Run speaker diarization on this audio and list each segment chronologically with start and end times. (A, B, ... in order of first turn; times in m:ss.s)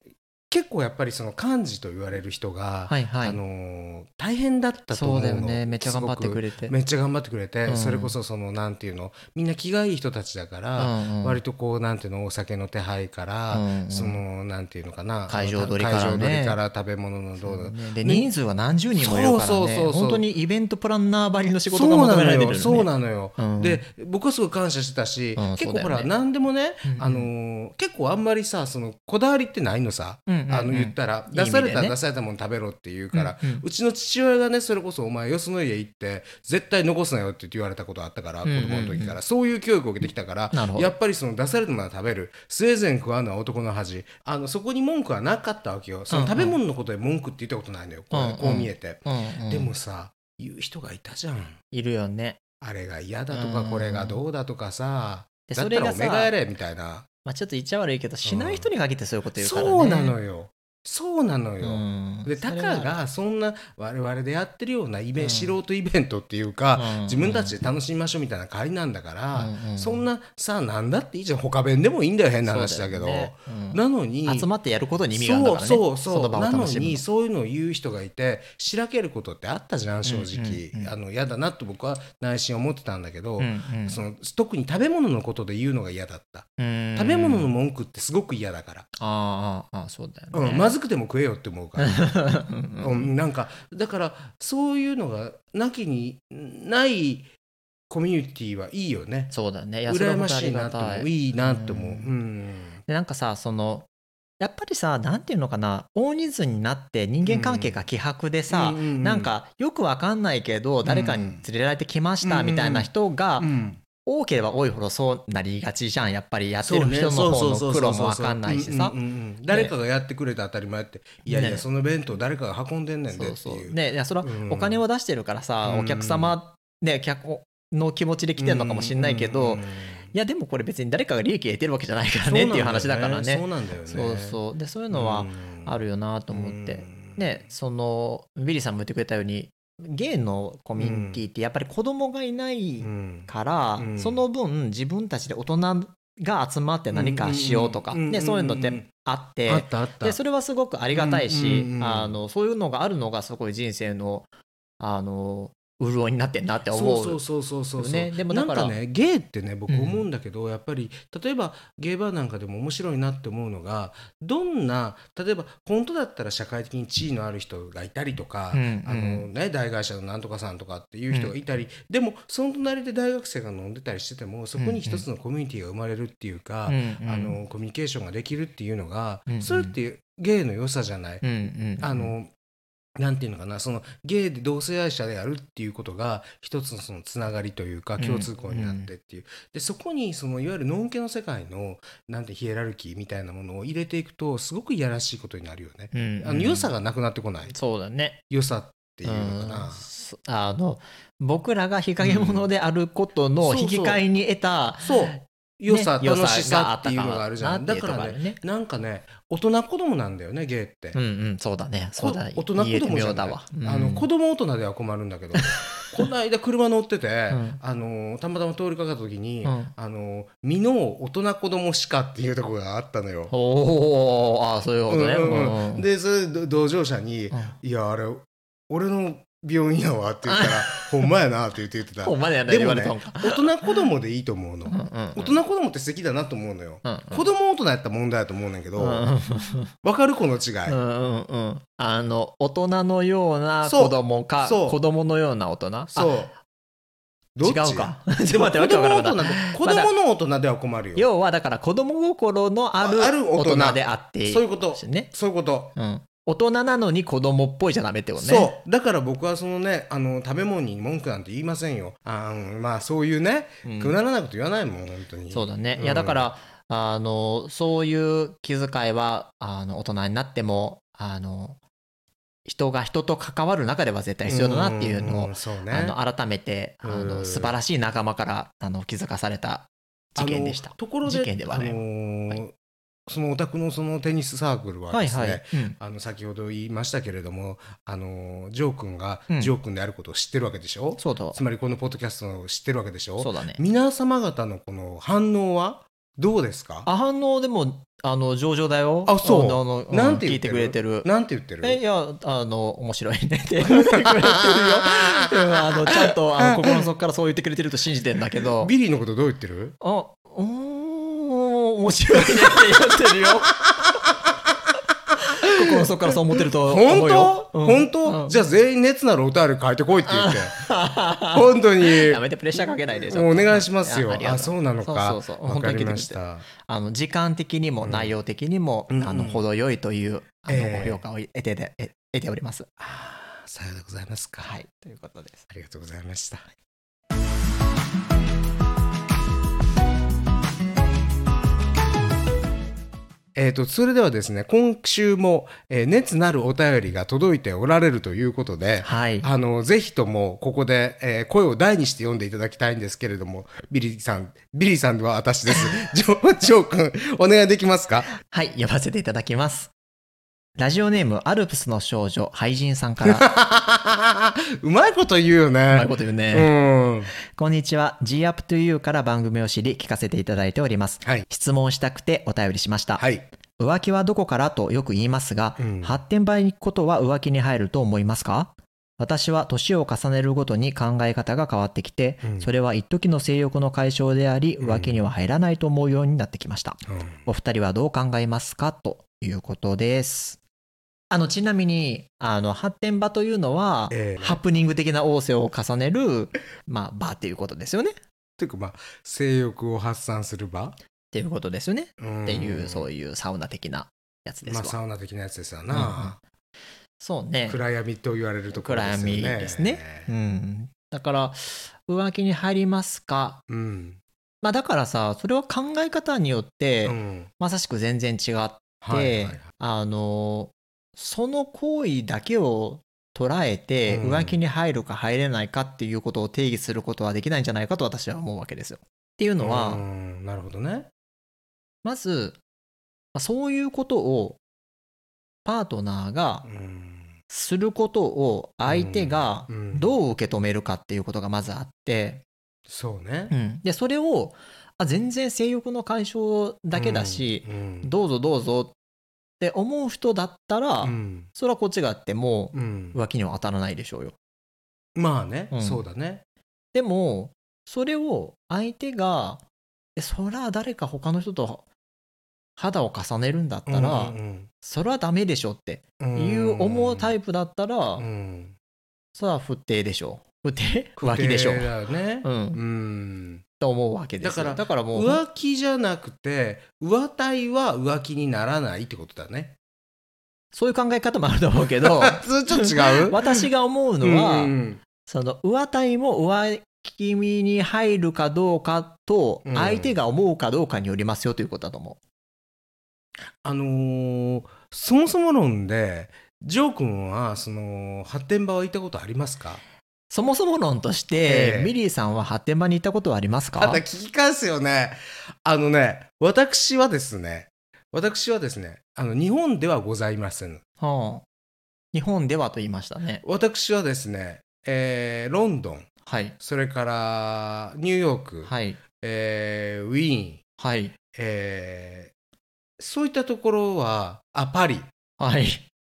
0:00.5-0:18.3 A
0:02.9-0:03.4 B
0:04.9-0:06.7 B
0:07.6-0:08.2 B
0:10.8-0:11.4 B
0:13.5-0:14.2 B
0:15.3-0:16.6 B
0:17.4-0:23.8 B
0:19.0-0:20.2 A
0:21.7-0:51.6 A
0:25.4-0:26.1 B
0:26.8-0:27.3 B
0:30.3-0:32.0 B
0:33.1-0:33.6 B
0:38.4-0:39.2 B
0:40.5-0:40.9 B
0:46.1-0:46.6 B
0:48.1-0:49.7 B
0:51.7-0:52.4 B
0:52.6-0:57.1 A
0:53.3-0:54.2 B
0:55.5-0:56.3 B
0:57.2-1:00.1 B
0:58.2-0:58.7 A
0:59.4-1:14.5 A
1:01.6-1:03.0 B
1:05.2-1:05.6 B
1:06.7-1:07.6 B
1:09.3-1:10.0 B
1:12.4-1:17.0 B
1:15.1-1:28.9 A
1:20.0-1:20.9 B
1:23.4-1:24.0 B
1:26.6-1:27.5 B
1:29.0-1:30.7 B
1:30.3-1:32.1 A
1:31.8-1:33.1 B
1:32.8-1:37.3 A
1:37.9-1:39.3 A
1:39.3-1:42.1 B
1:39.8-1:42.8 A
1:42.9-1:43.9 B
1:44.4-1:53.5 B
1:47.2-1:47.8 A
1:48.5-1:49.3 A
1:50.8-1:51.4 A
1:52.2-1:53.8 A
1:54.0-1:59.0 B
1:56.6-2:04.8 A
1:59.5-1:59.7 B
2:01.3-2:01.6 B
2:03.1-2:34.3 B
2:05.6-2:06.3 A
2:08.4-2:10.1 A
2:12.2-2:14.4 A
2:14.9-2:15.8 A
2:16.3-2:17.4 A
2:20.8-2:21.2 A
2:22.8-2:24.2 A
2:26.9-2:28.9 A
2:29.4-2:30.2 A
2:30.9-2:32.2 A
2:34.8-2:37.2 B
2:36.7-3:01.2 A
2:37.8-2:38.8 B
2:39.7-2:40.0 B
2:48.5-2:49.3 B
2:54.6-2:55.0 B
2:56.7-2:57.4 B
2:59.3-2:59.7 B
3:01.2-3:02.1 B
3:01.8-3:02.3 A
3:03.0-3:17.5 A
3:08.0-3:08.9 B
3:15.9-3:16.7 B
3:17.5-3:18.2 B
3:18.3-3:19.8 A
3:19.0-3:25.2 B
3:22.0-3:22.5 A
3:23.4-3:24.0 A
3:24.8-3:31.0 A
3:25.7-3:28.4 B
3:30.9-3:34.1 B
3:32.0-3:43.3 A
3:35.4-3:35.9 B
3:37.3-3:37.6 B
3:39.4-3:39.7 B
3:43.3-3:45.8 B
3:44.9-3:59.1 A
3:47.3-3:47.6 B
3:50.3-3:51.1 B
3:52.0-3:53.8 B
3:54.7-3:55.4 B
3:56.8-3:57.2 B
3:58.8-3:59.7 B
3:59.8-4:00.8 A
4:00.7-4:06.2 B
4:03.6-4:04.8 A
4:05.9-4:06.3 A
4:07.3-4:11.0 A
4:07.4-4:09.9 B
4:11.0-4:15.1 B
4:12.8-4:15.7 A
4:15.8-4:18.5 B
4:18.2-4:26.3 A
4:23.6-4:24.0 B
4:25.3-4:31.6 B
4:32.4-4:41.8 B
4:34.2-4:36.0 A
4:36.8-4:37.5 A
4:40.2-4:42.5 A
4:43.1-4:56.9 A
4:44.9-4:45.8 B
4:51.0-4:51.4 B
4:53.2-4:53.6 B
4:56.8-5:01.1 B
4:59.0-5:01.8 A
5:01.6-5:08.7 B
5:03.6-5:06.8 A
5:08.4-5:09.8 A
5:09.8-5:13.6 B
5:12.1-5:14.3 A
5:15.3-5:18.4 B
5:15.4-5:20.7 A
5:20.0-5:32.7 B
5:21.3-5:26.4 A
5:27.8-5:28.1 A
5:28.9-5:29.4 A
5:30.5-5:31.0 A
5:32.8-5:34.6 A
5:34.4-5:35.4 B
5:35.5-5:36.5 A
5:43.3-5:58.1 A
5:48.8-5:49.3 B
5:58.2-5:59.7 B
6:00.6-6:03.3 B
6:03.0-6:07.1 A
6:05.7-6:06.5 B
6:07.2-6:13.0 B
6:13.0-6:13.2 A
6:13.6-6:30.4 B
6:15.6-6:16.0 A
6:22.2-6:22.5 A
6:24.6-6:25.0 A
6:26.9-6:27.2 A
6:31.1-6:38.0 B
6:33.9-6:34.4 A
6:38.4-6:40.8 A
6:41.1-6:44.8 B
6:42.0-6:42.9 A
6:44.4-6:46.2 A
6:45.7-6:46.2 B
6:47.0-6:47.6 B
6:47.5-6:50.1 A
6:48.5-6:53.4 B
6:53.5-6:54.0 A
6:54.4-7:09.8 B
6:56.8-6:57.3 A
6:58.8-6:59.4 A
7:03.8-7:04.4 A
7:09.4-7:10.9 A
7:11.8-7:12.4 B
7:13.1-7:14.4 B
7:15.4-7:16.5 B
7:16.4-7:17.1 A
7:17.3-7:22.2 B
7:18.6-7:19.9 A
7:22.7-7:23.3 A
7:23.3-7:28.7 B
7:26.7-7:27.9 A
7:29.4-7:34.1 B
7:30.8-7:31.3 A
7:32.5-7:33.0 A
7:34.9-7:36.2 A
7:35.5-7:35.8 B
7:36.7-7:39.4 B
7:40.0-7:41.6 B
7:42.6-7:48.0 B
7:43.7-7:44.5 A
7:46.0-7:47.1 A
7:48.0-7:48.5 A
7:49.1-7:51.7 B
7:51.0-7:53.4 A
7:52.2-7:52.6 B
7:53.6-7:55.2 B
7:54.2-7:59.6 A
8:00.5-8:04.5 B
8:01.8-8:03.4 A
8:04.0-8:04.8 A
8:05.0-8:12.0 B
8:09.4-8:10.0 A
8:13.4-8:19.6 A
8:20.1-8:23.8 B
8:21.2-8:21.7 A
8:23.6-8:30.6 A
8:30.8-8:31.2 B
8:31.9-8:33.2 B
8:33.2-8:35.9 A
8:36.0-8:36.4 B
8:36.4-8:40.4 A
8:38.4-8:38.8 B
8:40.6-8:40.9 B
8:41.1-8:42.1 A
8:42.8-8:44.9 A
8:45.2-8:45.6 B